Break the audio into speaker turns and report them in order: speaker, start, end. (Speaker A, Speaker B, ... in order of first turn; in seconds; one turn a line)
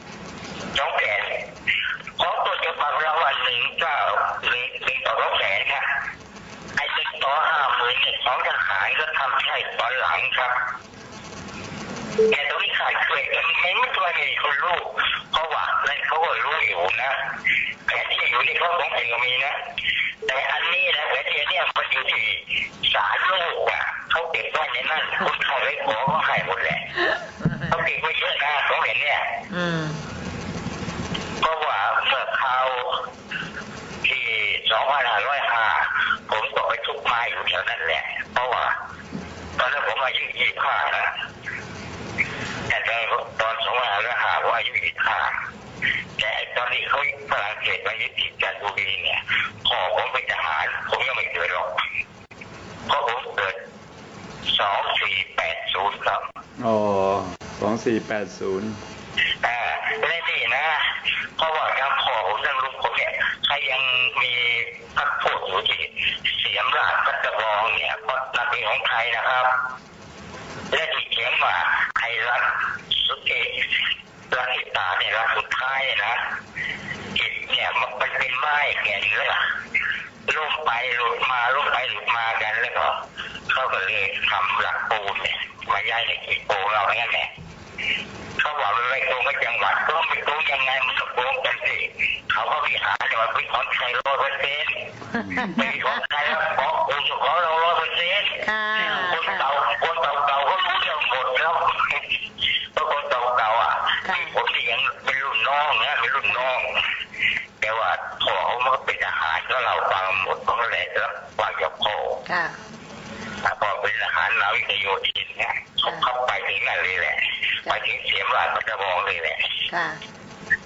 Speaker A: 0.7-1.4
Speaker A: 2.2-5.9
Speaker A: 6.8-10.6
Speaker A: 12.3-17.1
Speaker A: 17.9-19.6
Speaker A: 20.3-26.9
Speaker B: 27.4-27.8
Speaker A: 27.7-29.4
Speaker B: 29.5-30.0
Speaker A: 31.4-33.0
Speaker A: 34.0-38.8
Speaker A: 39.6-41.1
Speaker A: 42.7-45.4
Speaker A: 46.2-51.8
Speaker A: 52.9-53.6
Speaker A: 54.5-56.2
Speaker C: 56.6-58.8
Speaker A: 59.4-60.8
Speaker A: 61.4-69.5
Speaker A: 70.7-73.7
Speaker A: 74.3-76.2
Speaker A: 77.1-79.5
Speaker A: 80.3-83.0
Speaker A: 83.5-87.3
Speaker A: 88.4-102.0
Speaker B: 95.3-95.7
Speaker B: 98.4-99.5
Speaker A: 102.8-106.8
Speaker B: 104.0-104.3
Speaker B: 106.3-106.5
Speaker A: 107.6-112.2
Speaker B: 112.3-112.6
Speaker A: 113.4-119.6
Speaker B: 119.7-120.0